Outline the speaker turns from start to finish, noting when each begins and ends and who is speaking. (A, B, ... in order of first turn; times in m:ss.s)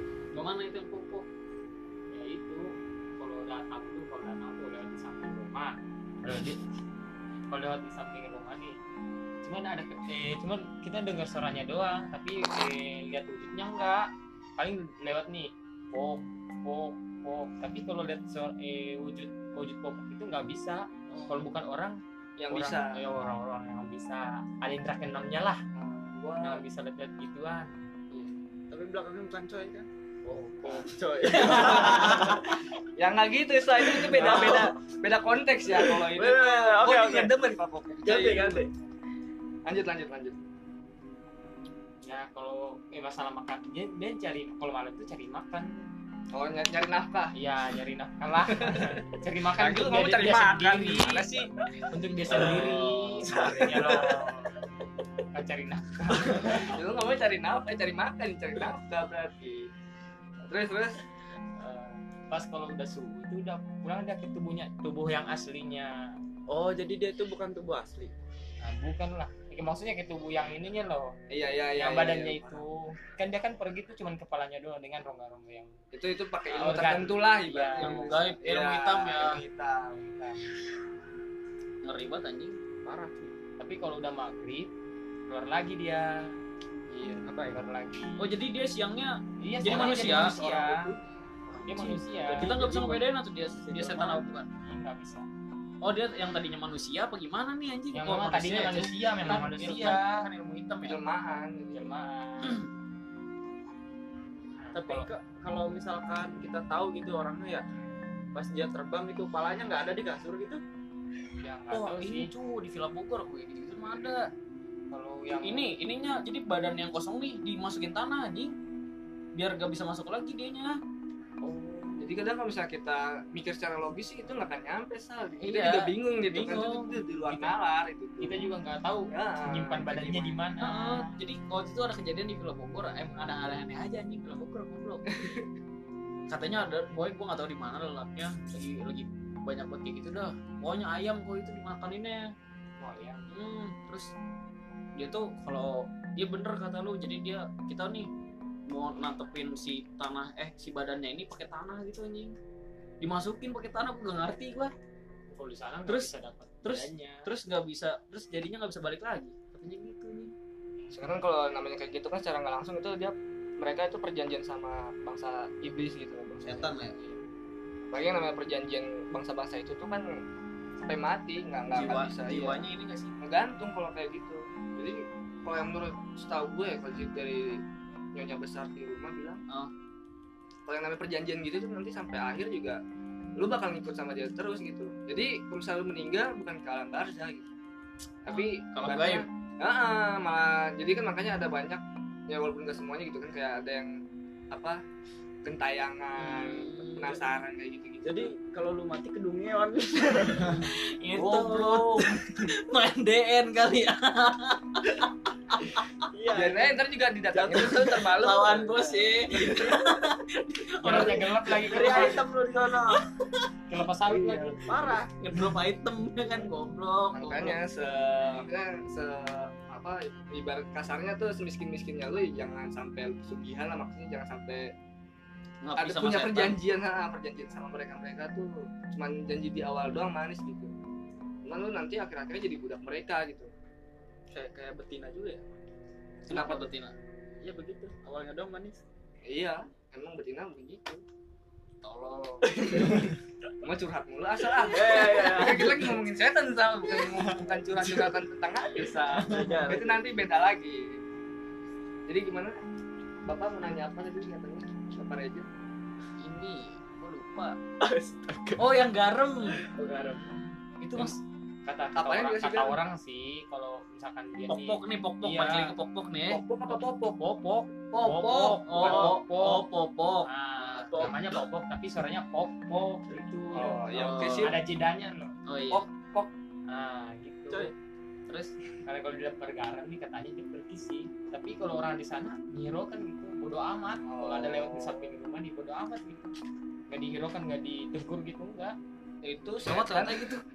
0:00.3-0:01.3 A
0:02.1-0:06.6 B
0:07.5-0:08.8 B
0:09.4-0:22.0 B
0:21.1-0:21.4 C
0:22.4-0:23.0 D
0:22.5-0:25.6 B
0:25.7-0:26.6 D
0:26.4-0:27.7 B
0:28.2-0:29.9 C
0:30.2-0:32.3 B
0:30.6-0:32.6 C
0:31.2-0:38.6 D
0:33.8-0:34.8 C
0:34.2-0:34.6 B
0:35.7-0:37.3 C
0:38.0-0:38.7 C
0:39.6-0:40.3 D
0:42.0-0:45.9 B
0:46.3-0:47.3 D
0:47.3-0:51.3 B
0:48.4-0:49.0 D
0:49.6-0:51.5 D
0:51.9-0:54.5 B
0:52.4-0:54.2 C
0:52.4-0:54.3 D
0:55.3-0:56.8 B
0:56.2-0:59.7 D
1:00.5-1:01.0 D
1:01.6-1:06.1 B
1:06.5-1:08.1 C
1:08.6-1:11.2 B
1:11.3-1:12.6 D
1:11.8-1:15.7 B
1:15.9-1:20.4 D
1:16.5-1:18.1 B
1:17.8-1:19.4 A
1:21.8-1:22.6 A
1:22.8-1:23.4 C
1:23.6-1:24.7 B
1:25.3-1:26.3 B
1:27.0-1:28.3 B
1:27.1-1:27.6 C
1:28.2-1:30.3 A
1:29.4-1:30.9 B
1:29.7-1:31.0 D
1:29.8-1:30.5 C
1:31.5-1:33.1 C
1:31.6-1:34.5 A
1:31.6-1:32.6 B
1:33.6-1:34.1 C
1:33.8-1:35.2 B
1:35.8-1:41.0 A
1:37.9-1:40.2 B
1:40.8-1:41.9 D
1:41.7-1:42.6 B
1:42.4-1:42.7 A
1:44.5-1:45.1 B
1:44.7-1:47.6 C
1:48.3-1:50.6 C
1:51.4-1:52.3 B
1:51.7-1:54.3 A
1:54.9-1:55.8 B
1:55.3-1:58.6 A
1:59.3-2:00.8 A
2:02.0-2:08.4 D
2:05.4-2:07.0 A
2:07.3-2:07.5 B
2:08.2-2:11.1 B
2:09.1-2:10.4 D
2:10.6-2:15.0 A
2:15.1-2:15.5 D
2:16.3-2:22.3 A
2:22.8-2:23.3 B
2:23.3-2:24.1 A
2:25.0-2:28.1 A
2:28.7-2:32.3 A
2:33.0-2:34.7 A
2:35.3-2:37.3 B
2:35.9-2:36.1 A
2:36.6-2:40.3 A
2:40.9-2:46.7 D
2:46.4-2:47.0 A
2:47.9-2:50.1 D
2:50.8-2:52.6 D
2:51.7-2:53.1 A
2:53.2-2:57.6 D
2:58.1-2:59.4 D
3:00.7-3:02.8 D
3:03.4-3:07.5 D
3:08.2-3:13.9 D
3:08.3-3:09.2 A
3:14.5-3:14.8 D
3:15.4-3:18.3 D
3:16.2-3:17.2 A
3:18.0-3:21.8 C
3:20.5-3:25.9 A
3:26.1-3:26.7 C
3:26.3-3:29.8 D
3:27.3-3:28.1 C
3:28.0-3:33.0 A
3:30.8-3:32.2 B
3:30.8-3:33.0 C
3:33.7-3:34.8 B
3:34.6-3:35.1 C
3:34.7-3:37.6 A
3:37.1-3:44.7 D
3:45.6-3:46.6 A
3:45.8-3:50.7 D
3:51.4-3:53.5 D
3:54.3-3:55.4 D
3:56.3-3:56.9 A
3:56.3-3:56.7 D
3:57.4-3:58.8 C
3:59.2-4:01.0 D
4:01.8-4:11.0 D
4:02.4-4:03.2 C
4:04.5-4:06.0 C
4:07.0-4:08.1 C
4:09.2-4:10.0 C
4:12.1-4:12.6 D
4:13.2-4:15.5 D
4:16.2-4:17.6 A
4:17.8-4:18.6 C
4:18.6-4:21.2 A
4:19.6-4:20.2 C
4:21.6-4:25.7 B
4:22.0-4:22.8 D
4:24.5-4:26.4 A
4:26.3-4:27.2 D
4:26.7-4:29.6 B
4:27.9-4:31.1 A
4:28.8-4:29.1 D
4:30.2-4:35.4 B
4:33.5-4:34.6 D
4:33.9-4:34.5 A
4:35.5-4:35.8 A
4:36.7-4:37.7 B
4:38.3-4:38.5 A
4:38.8-4:46.3 B
4:44.0-4:45.2 D
4:46.9-4:48.8 B
4:49.2-4:50.4 D
4:49.6-4:50.4 A